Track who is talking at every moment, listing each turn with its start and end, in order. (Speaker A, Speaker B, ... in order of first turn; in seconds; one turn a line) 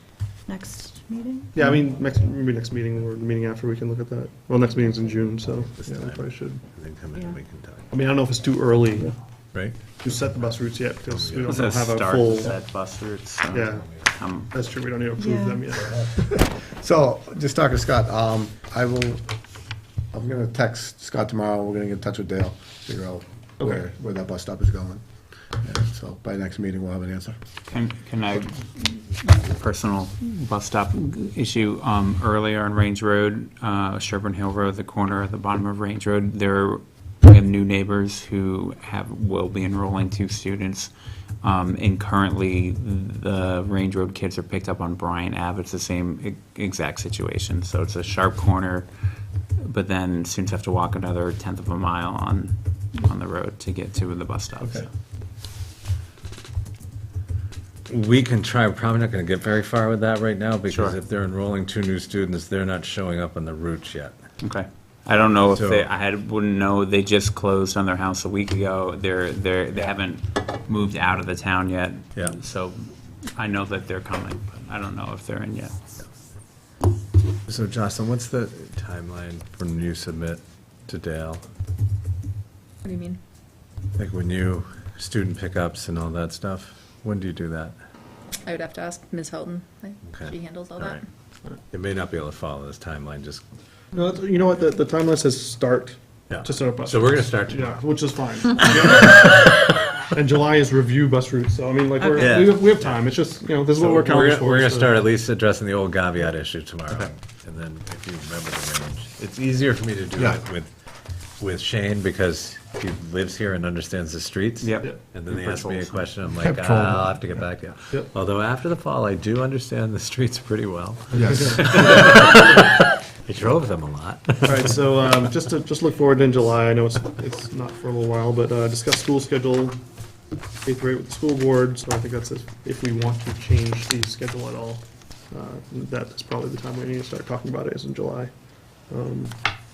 Speaker A: 0.5-1.5
Speaker B: 1.5-6.6
Speaker C: 5.8-7.9
Speaker B: 7.9-9.2
Speaker C: 9.5-11.7
Speaker B: 9.9-12.6
Speaker D: 11.4-14.5
Speaker B: 13.5-16.4
Speaker A: 15.2-15.7
Speaker E: 16.1-19.2
Speaker E: 20.1-25.0
Speaker B: 23.6-23.9
Speaker E: 25.6-27.4
Speaker D: 27.7-48.9
Speaker D: 49.6-54.9
Speaker C: 57.9-64.2
Speaker D: 60.7-61.0
Speaker D: 64.4-75.7
Speaker C: 65.4-65.9
Speaker C: 77.5-81.4
Speaker A: 82.8-83.2
Speaker C: 84.0-87.8
Speaker A: 88.4-91.0
Speaker C: 90.0-91.0
Speaker C: 91.7-93.4
Speaker B: 93.9-105.0
Speaker C: 96.3-97.8
Speaker C: 98.6-98.9
Speaker C: 102.2-103.1
Speaker C: 103.8-110.7
Speaker C: 111.4-125.2
Speaker D: 114.6-116.2
Speaker E: 116.4-117.2
Speaker B: 121.2-121.6
Speaker E: 121.2-122.0
Speaker B: 124.4-129.8
Speaker B: 130.6-139.5